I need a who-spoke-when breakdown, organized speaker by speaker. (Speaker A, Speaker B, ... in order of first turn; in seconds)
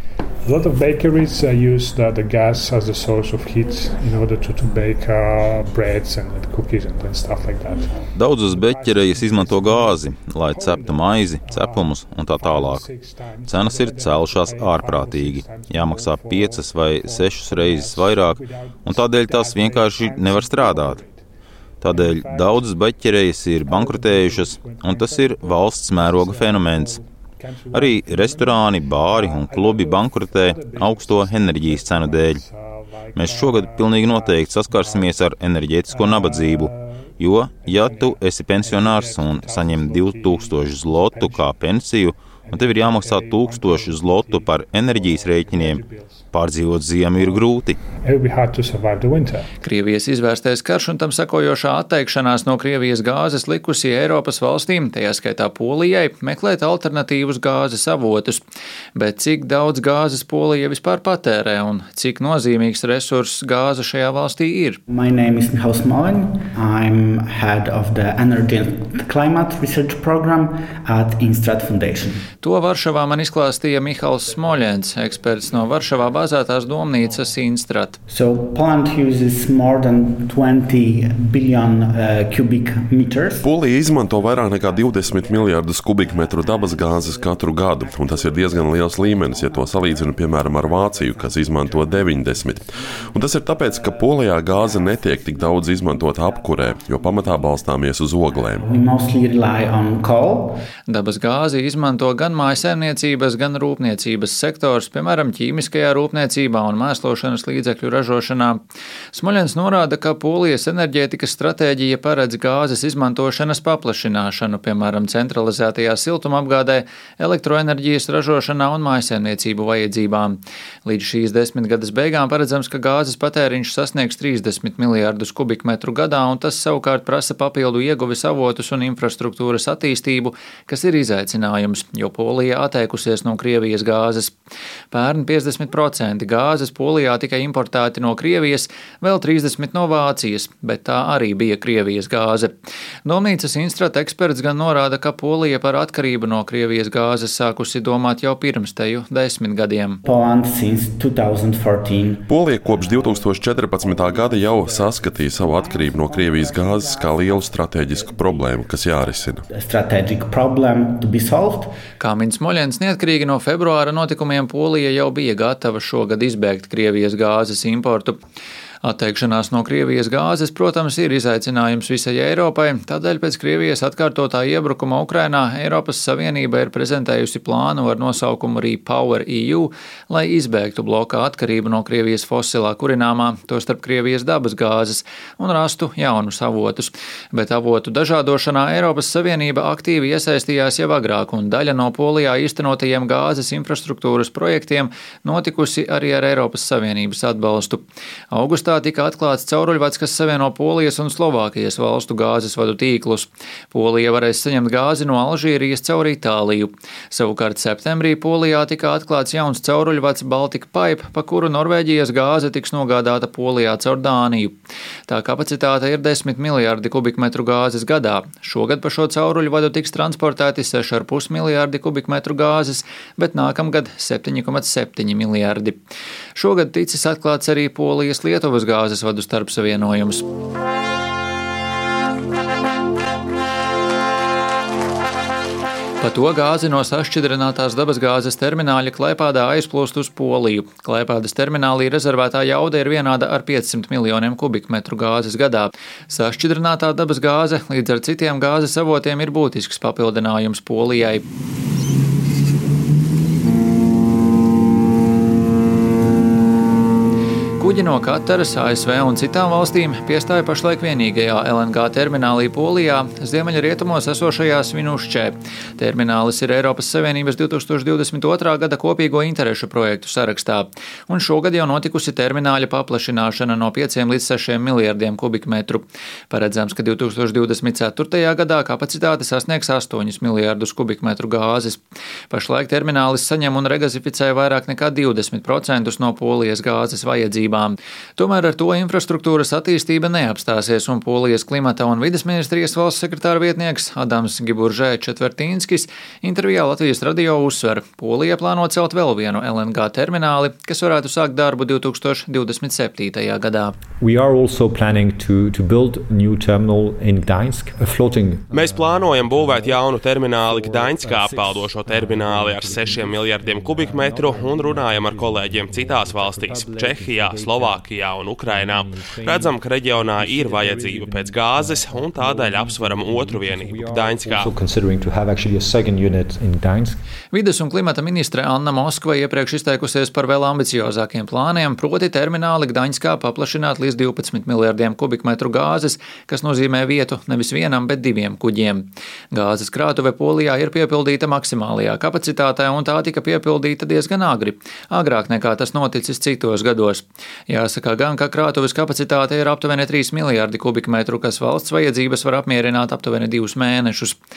Speaker A: 0.5-21.2, 21.8-41.7, 42.4-46.3, 47.1-49.5
Speaker B: 8.2-12.8, 13.4-21.0, 21.8-27.0, 27.7-32.4, 33.1-47.8
Speaker C: 49.6-58.4, 59.0-64.8, 72.4-78.0, 100.9-108.6, 109.1-134.3, 134.9-142.5, 143.1-150.0, 162.0-168.2, 168.8-214.6, 215.1-225.8, 226.3-230.2, 236.0-251.2, 257.6-303.8, 327.3-354.2
Speaker D: 64.9-72.2, 78.1-97.7, 98.2-100.6, 150.0-161.8
Speaker E: 83.4-98.7, 152.3-159.4
Speaker F: 304.0-309.9, 310.5-317.8, 318.4-327.0
Speaker G: 308.5-324.5